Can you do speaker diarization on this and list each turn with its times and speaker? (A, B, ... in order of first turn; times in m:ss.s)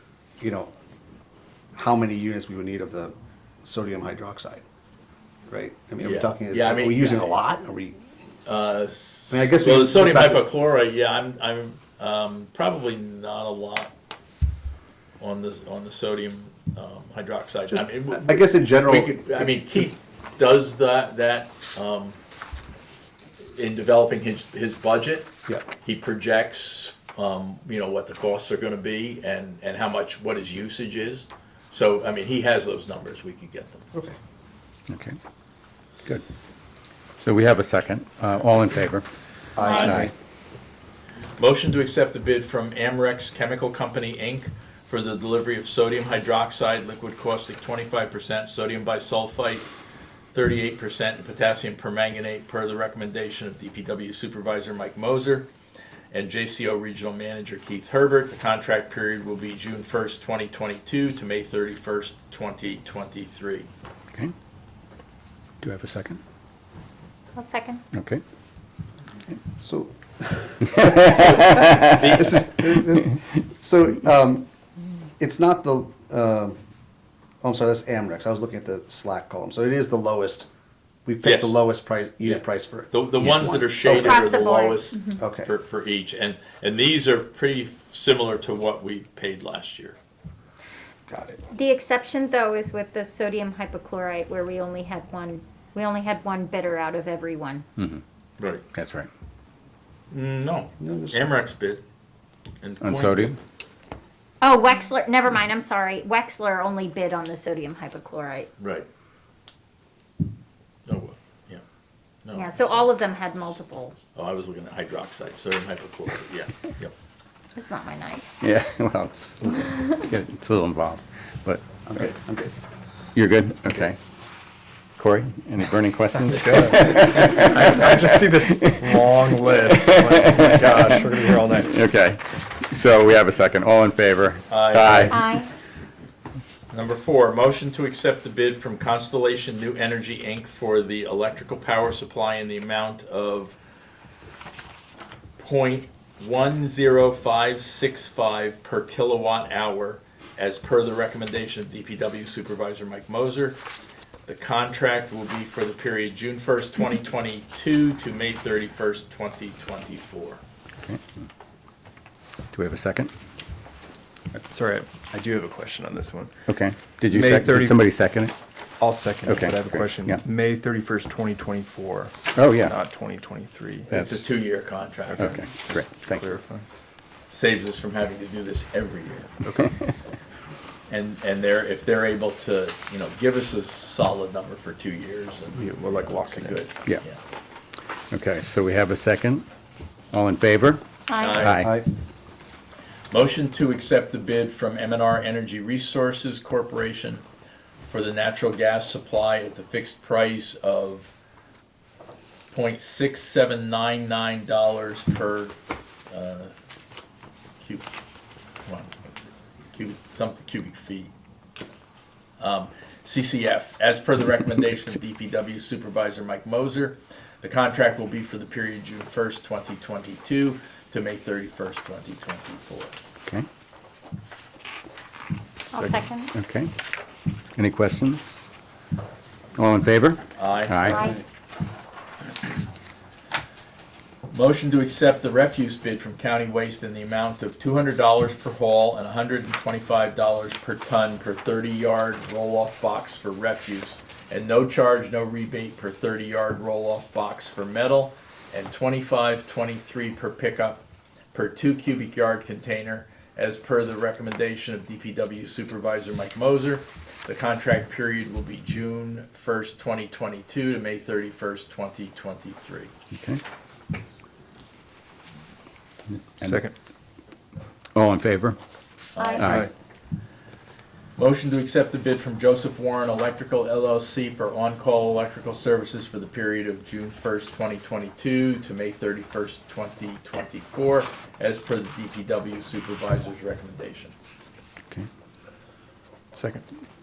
0:00.4-0:00.7 A
0:01.7-0:04.6 A
0:05.5-0:08.0 A
0:06.0-0:07.4 B
0:08.4-0:13.9 B
0:09.3-0:10.5 A
0:15.2-0:22.2 B
0:17.7-0:19.9 A
0:23.5-0:25.3 B
0:25.8-0:33.8 B
0:34.9-0:35.2 C
0:37.2-0:39.0 C
0:39.6-0:40.1 A
0:39.6-0:40.0 D
0:39.8-0:40.1 C
0:41.4-0:49.7 B
0:50.3-0:55.5 B
0:56.1-1:03.7 B
1:05.6-1:06.2 C
1:07.3-1:07.8 D
1:07.9-1:08.2 C
1:09.6-1:14.4 A
1:10.7-1:12.4 B
1:15.2-1:16.6 A
1:17.4-1:20.5 A
1:21.0-1:24.3 A
1:21.2-1:21.6 B
1:22.2-1:30.0 B
1:23.8-1:25.1 D
1:25.2-1:25.5 A
1:31.1-1:31.4 A
1:31.5-1:37.6 D
1:37.8-1:38.0 C
1:38.4-1:38.6 B
1:38.7-1:39.1 C
1:40.1-1:41.8 B
1:40.8-1:41.2 A
1:42.6-1:43.4 B
1:42.8-1:43.4 C
1:44.4-1:48.5 D
1:48.6-1:48.9 B
1:50.9-1:51.6 B
1:52.2-1:53.5 B
1:52.3-1:54.0 D
1:54.1-1:56.9 B
1:57.5-1:58.3 D
1:58.4-2:02.1 C
2:01.9-2:02.5 A
2:03.1-2:04.0 C
2:05.0-2:09.1 C
2:07.5-2:11.7 E
2:09.6-2:15.2 C
2:14.5-2:15.2 B
2:15.1-2:15.5 D
2:16.7-2:23.6 B
2:25.4-2:33.6 B
2:34.3-2:40.4 B
2:42.5-2:43.1 C
2:44.5-2:46.3 E
2:46.5-2:48.4 C
2:47.1-2:47.8 E
2:48.8-2:52.2 E
2:49.2-2:50.2 C
2:52.3-2:52.8 C
2:52.7-2:54.0 E
2:53.9-2:54.2 C
2:53.9-2:55.4 B
2:55.2-2:56.2 C
2:55.6-2:56.6 E
2:57.3-2:59.5 B
2:59.5-2:59.8 C
3:00.9-3:07.2 B
3:05.6-3:06.6 E
3:08.1-3:09.4 C
3:10.1-3:11.7 C
3:11.1-3:11.4 D
3:11.2-3:11.7 B
3:11.6-3:11.9 A
3:13.1-3:17.2 B
3:17.9-3:21.1 B
3:22.5-3:25.6 B
3:26.1-3:26.5 B
3:27.6-3:27.9 B
3:28.6-3:31.1 B
3:32.4-3:43.0 B
3:45.7-3:46.3 D
3:45.7-3:46.7 C
3:47.5-3:48.4 C
3:49.6-3:51.0 C
3:50.4-3:51.2 B
3:50.8-3:51.2 D
3:54.3-4:22.9 B
4:23.1-4:23.4 C
4:26.4-4:26.6 C
4:26.4-4:26.7 E
4:27.9-4:28.6 C
4:29.2-4:29.5 B
4:29.2-4:29.6 D
4:29.4-4:29.7 C
4:31.2-4:44.1 B